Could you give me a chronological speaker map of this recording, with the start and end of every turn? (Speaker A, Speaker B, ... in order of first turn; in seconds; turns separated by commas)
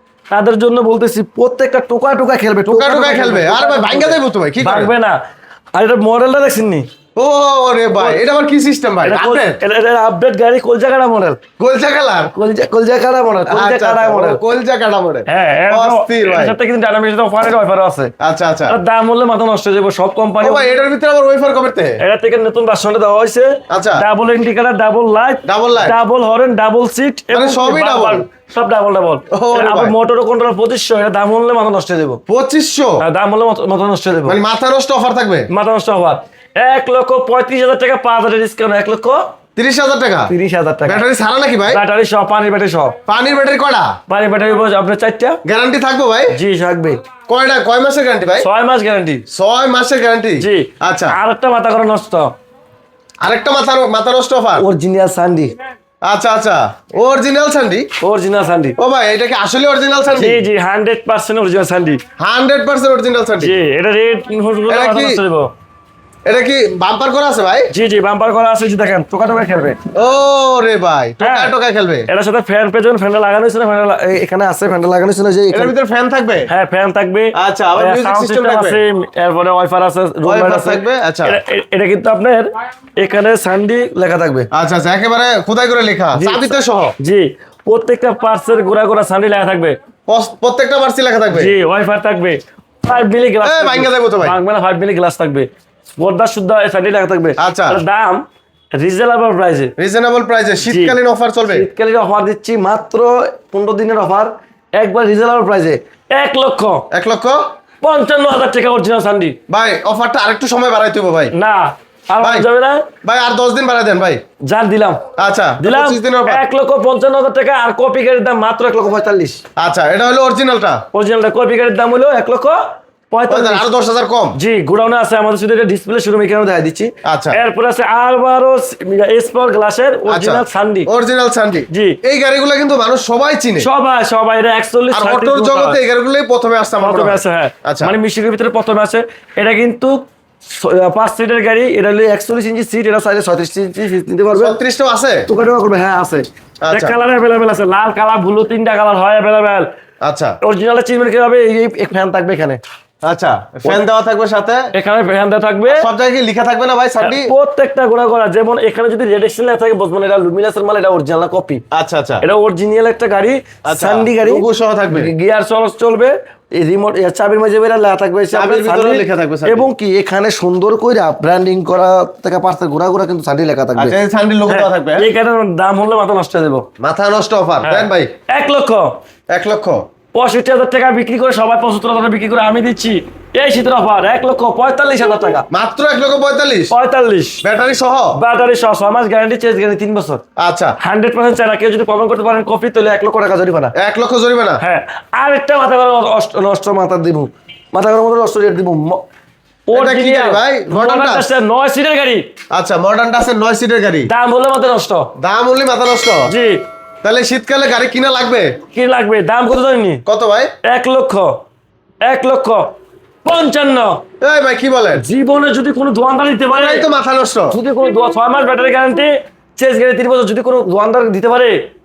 Speaker A: 0.3-5.2, Speaker B: 2.6-4.9, Speaker A: 5.7-6.8, Speaker B: 7.2-9.6, Speaker A: 7.9-8.2, Speaker A: 9.0-11.4, Speaker B: 11.6-12.3, Speaker A: 12.3-14.4, Speaker B: 13.5-16.5, Speaker A: 15.3-18.1, Speaker B: 18.2-18.8, Speaker A: 18.7-20.6, Speaker B: 20.4-22.0, Speaker A: 22.0-32.2, Speaker B: 23.7-24.0, Speaker B: 25.4-25.9, Speaker B: 27.3-28.2, Speaker B: 29.3-29.9, Speaker B: 32.3-33.0, Speaker A: 33.0-34.4, Speaker B: 34.3-35.5, Speaker A: 35.5-39.2, Speaker B: 39.5-40.3, Speaker A: 40.3-41.0, Speaker B: 40.9-41.8, Speaker A: 41.7-42.9, Speaker B: 43.1-43.9, Speaker A: 44.1-45.4, Speaker B: 45.4-46.4, Speaker A: 46.3-47.0, Speaker B: 47.3-48.5, Speaker A: 48.4-49.2, Speaker B: 49.3-51.2, Speaker A: 50.4-52.3, Speaker B: 53.2-54.6, Speaker A: 54.6-55.5, Speaker B: 56.0-57.9, Speaker A: 58.0-58.8, Speaker B: 58.8-60.4, Speaker A: 60.1-62.0, Speaker B: 62.2-63.6, Speaker A: 63.4-65.5, Speaker B: 64.7-65.2, Speaker B: 66.2-67.7, Speaker A: 67.7-69.8, Speaker B: 69.9-72.1, Speaker A: 71.2-71.5, Speaker A: 72.1-75.7, Speaker B: 75.5-76.5, Speaker A: 76.5-84.5, Speaker B: 77.3-78.8, Speaker B: 80.2-81.4, Speaker B: 84.5-87.0, Speaker A: 86.2-89.7, Speaker B: 90.1-91.5, Speaker A: 91.4-95.5, Speaker B: 93.4-94.4, Speaker A: 96.0-98.2, Speaker B: 97.4-97.8, Speaker A: 98.8-99.7, Speaker B: 99.8-101.7, Speaker A: 101.5-106.8, Speaker B: 106.9-107.4, Speaker A: 107.8-109.3, Speaker B: 109.5-111.3, Speaker A: 111.3-112.8, Speaker B: 112.2-112.5, Speaker B: 113.0-114.2, Speaker A: 114.5-115.0, Speaker B: 115.2-116.4, Speaker A: 115.6-119.4, Speaker B: 119.6-120.8, Speaker A: 120.9-122.6, Speaker A: 123.1-123.6, Speaker B: 123.3-124.4, Speaker A: 124.4-130.9, Speaker B: 127.0-127.4, Speaker B: 130.1-133.7, Speaker A: 133.6-135.8, Speaker B: 134.9-137.9, Speaker A: 136.8-140.0, Speaker A: 140.5-144.6, Speaker B: 144.3-145.3, Speaker A: 145.3-149.7, Speaker B: 146.6-146.9, Speaker B: 150.0-150.4, Speaker A: 150.4-152.6, Speaker B: 153.0-154.7, Speaker A: 154.7-155.7, Speaker B: 155.7-157.3, Speaker A: 157.0-161.6, Speaker B: 161.7-162.2, Speaker A: 162.2-173.9, Speaker B: 163.7-165.1, Speaker B: 168.3-169.7, Speaker B: 173.8-175.1, Speaker A: 174.5-176.6, Speaker B: 176.8-178.1, Speaker A: 177.6-178.9, Speaker B: 179.3-179.8, Speaker A: 180.1-185.4, Speaker B: 185.5-186.7, Speaker A: 186.7-187.4, Speaker B: 187.4-188.2, Speaker A: 188.2-190.2, Speaker B: 190.4-190.7, Speaker A: 190.8-193.7, Speaker B: 193.7-194.6, Speaker A: 194.6-199.0, Speaker A: 199.7-202.2, Speaker B: 199.7-201.3, Speaker B: 202.5-204.1, Speaker A: 204.1-205.1, Speaker B: 205.2-206.3, Speaker A: 206.3-206.6, Speaker B: 207.0-208.6, Speaker A: 208.7-210.0, Speaker B: 210.1-210.5, Speaker A: 210.7-211.3, Speaker A: 212.0-212.6, Speaker A: 213.2-214.0, Speaker B: 214.2-215.0, Speaker A: 215.0-216.8, Speaker B: 216.5-217.6, Speaker A: 217.5-221.6